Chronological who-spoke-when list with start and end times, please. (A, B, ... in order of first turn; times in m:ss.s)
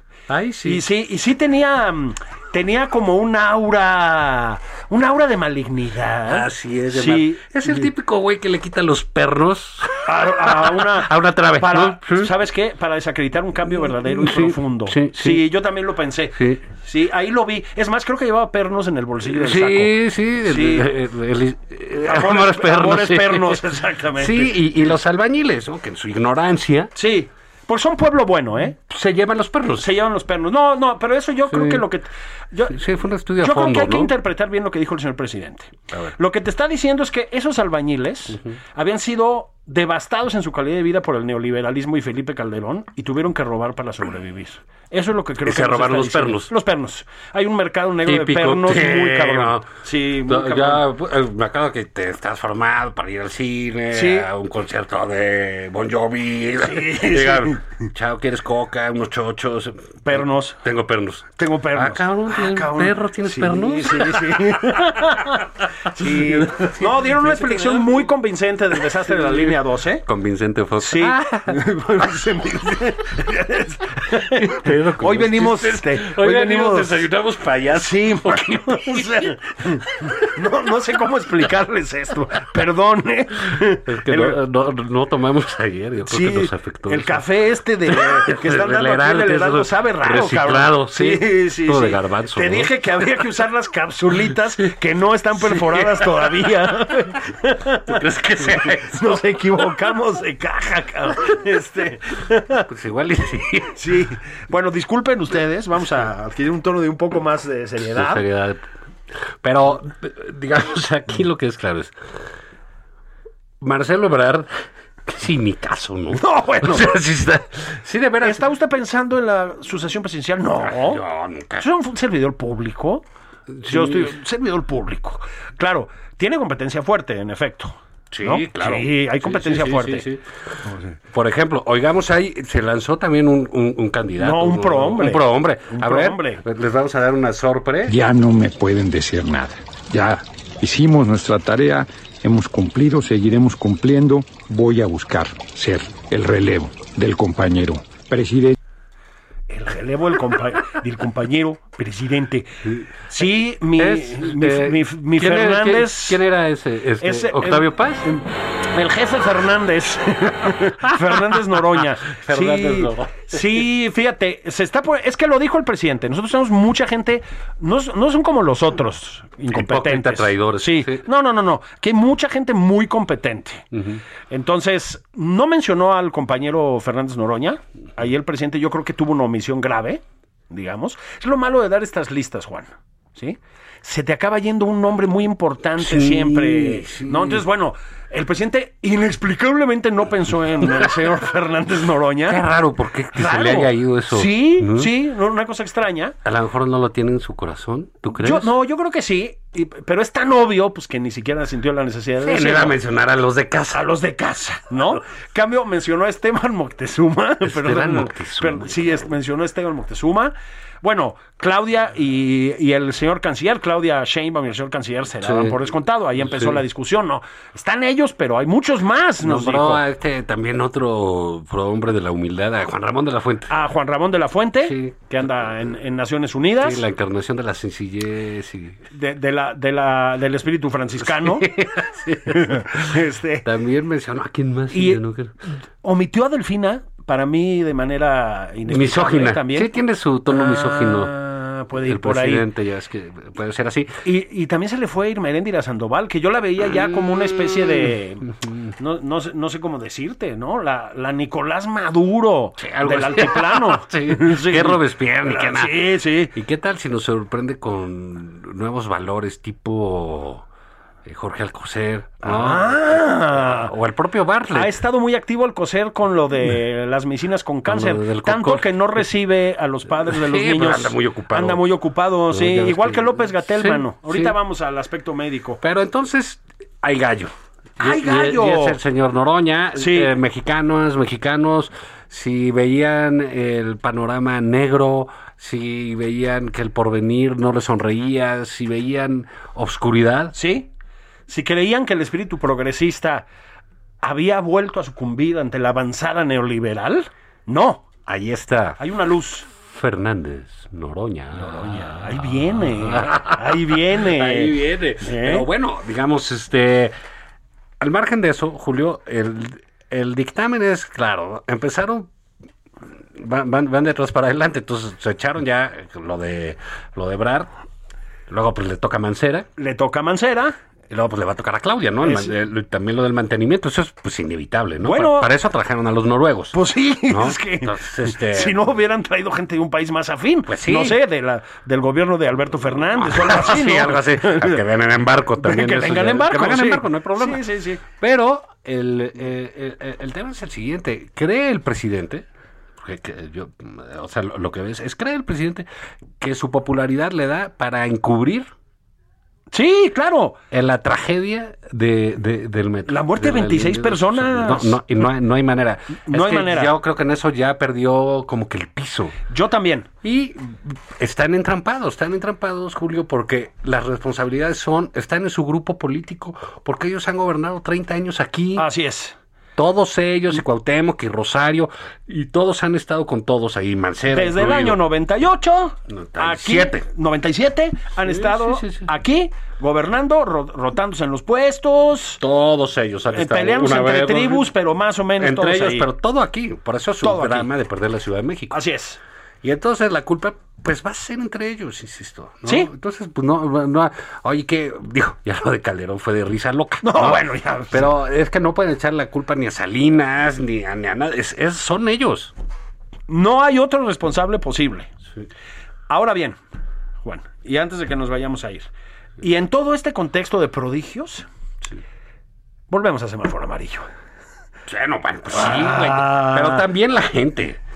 0:00.3-0:00.8 A
0:00.6-0:07.9 B
0:06.3-0:12.3 A
0:10.0-0:20.9 B
0:13.7-0:15.4 A
0:16.4-0:16.7 A
0:19.3-0:23.6 A
0:22.0-0:24.6 B
0:24.2-0:26.9 A
0:27.0-0:28.8 B
0:28.8-0:29.9 A
0:29.8-0:32.8 B
0:31.5-0:31.8 A
0:32.7-0:34.1 A
0:33.4-0:50.9 B
0:38.3-0:38.6 A
0:45.4-0:46.5 A
0:48.0-0:49.7 A
0:50.2-1:04.6 A
0:53.9-0:54.3 B
0:56.6-0:57.6 B
1:00.0-1:00.6 B
1:01.4-1:10.1 B
1:05.9-1:08.1 A
1:09.0-1:11.6 A
1:10.8-1:17.0 B
1:14.4-1:19.4 A
1:17.7-1:24.4 B
1:23.8-1:27.2 A
1:26.1-1:42.7 B
1:27.9-1:32.8 A
1:35.4-1:36.5 A
1:37.8-1:39.6 A
1:42.7-1:43.8 A
1:43.8-1:48.2 B
1:47.8-1:48.6 A
1:49.4-1:51.9 A
1:53.6-1:54.5 A
1:55.1-1:58.4 A
1:56.1-1:57.0 B
1:58.2-2:01.0 B
2:00.6-2:01.7 A
2:01.6-2:03.0 B
2:03.5-2:04.1 A
2:03.7-2:10.1 B
2:08.1-2:18.0 A
2:10.7-2:11.0 B
2:14.2-2:16.4 B
2:17.9-2:28.6 C
2:29.5-2:32.5 B
2:32.6-2:32.9 A
2:33.1-2:36.2 B
2:33.8-2:38.1 A
2:37.0-2:53.7 B
2:40.8-2:43.6 A
2:49.5-2:51.1 A
2:53.7-2:54.0 A
2:54.3-3:12.4 B
3:05.8-3:07.4 A
3:12.3-3:14.9 A
3:13.1-3:16.2 B
3:16.2-3:18.5 A
3:18.1-3:22.8 B
3:22.2-3:23.9 A
3:23.7-3:39.8 B
3:27.4-3:29.1 A
3:35.2-3:35.6 A
3:36.2-3:36.6 A
3:39.2-3:43.5 A
3:43.5-3:46.8 B
3:44.6-3:45.1 A
3:46.6-3:48.8 A
3:48.9-3:51.6 B
3:51.0-3:55.3 A
3:52.3-3:53.5 B
3:54.7-3:55.0 B
3:55.8-3:59.8 B
3:58.7-4:01.1 A
4:00.3-4:02.5 B
4:01.8-4:04.0 A
4:04.0-4:08.3 B
4:06.8-4:07.9 A
4:08.4-4:08.7 A
4:08.8-4:16.3 B
4:12.6-4:20.4 A
4:21.0-4:24.8 A
4:22.2-4:23.7 B
4:24.5-4:35.6 B
4:27.7-4:29.0 A
4:30.0-4:31.6 A
4:32.3-4:34.4 A
4:35.6-4:50.4 A
4:37.8-4:38.8 B
4:39.8-4:40.1 B
4:50.4-4:50.7 B
4:51.3-4:53.3 B
4:54.0-4:57.9 B
4:58.1-4:58.8 A
4:58.8-4:59.5 B
4:59.5-5:07.0 A
5:01.4-5:05.5 B
5:07.8-5:12.1 A
5:13.1-5:17.5 A
5:18.3-5:19.5 A
5:19.6-5:20.6 B
5:20.9-5:26.6 A
5:22.0-5:22.3 B
5:24.8-5:25.3 B
5:26.5-5:34.6 B
5:27.1-5:28.6 A
5:30.5-5:31.0 A
5:33.0-5:42.2 A
5:35.4-5:37.8 B
5:42.8-5:45.7 A
5:46.2-5:48.5 A
5:49.5-5:50.4 B
5:50.5-5:59.2 A
5:52.9-5:54.8 B
5:56.1-5:56.8 B
5:59.3-5:59.9 B
6:00.0-6:08.7 A
6:08.6-6:09.2 B
6:09.6-6:14.8 A
6:14.1-6:22.2 B
6:15.9-6:16.8 A
6:18.0-6:18.9 A
6:22.2-6:24.5 A
6:23.1-6:25.9 B
6:25.2-6:28.6 A
6:27.0-6:27.5 B
6:28.5-6:29.0 B
6:29.4-6:42.3 A
6:32.5-6:32.7 B
6:36.8-6:37.9 B
6:43.1-6:44.9 B
6:45.9-6:46.4 B
6:47.0-6:48.7 B
6:49.2-6:51.3 B
6:52.7-6:53.9 B
6:54.7-6:57.6 A
6:55.3-6:56.7 B